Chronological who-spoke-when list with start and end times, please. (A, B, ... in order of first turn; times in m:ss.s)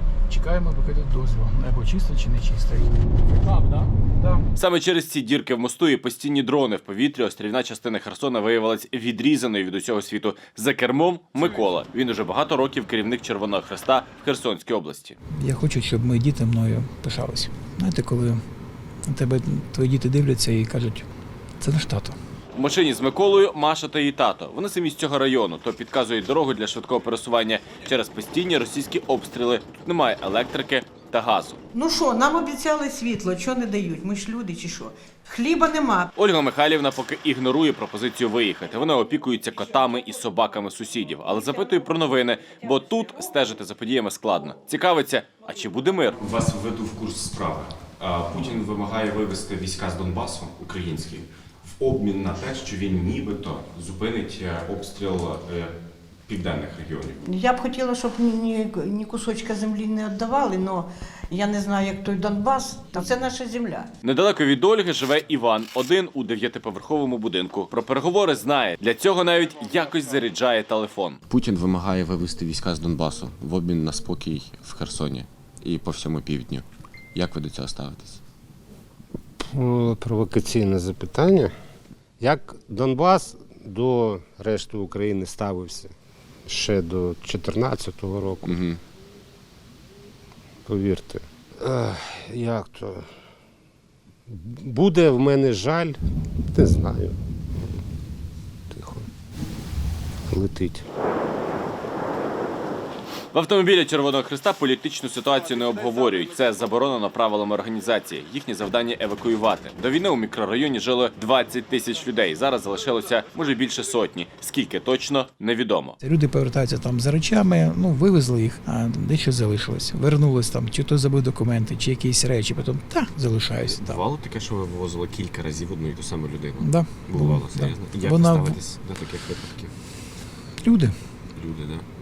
0:00.3-0:03.0 A
0:04.2-0:04.4 A
0:04.6-0:15.2 B
0:15.4-0:18.4 A
0:19.1-0:21.1 A
0:21.6-0:22.2 A
0:22.6-0:31.6 B
0:31.7-0:36.1 C
0:36.2-0:46.2 B
0:46.2-0:51.2 D
0:51.8-0:55.7 D
0:56.3-0:57.2 D
0:57.2-1:03.9 C
1:04.0-1:11.2 B
1:11.3-1:18.2 D
1:19.5-1:21.5 E
1:22.2-1:25.9 E
1:26.5-1:28.7 E
1:30.7-1:33.1 E
1:34.3-1:36.0 E
1:36.5-1:37.2 E
1:38.7-1:39.1 E
1:40.3-1:40.8 E
1:43.3-1:56.0 B
1:56.0-2:04.0 A
2:03.7-2:09.7 D
2:06.6-2:08.6 A
2:10.6-2:10.9 A
2:11.4-2:11.9 D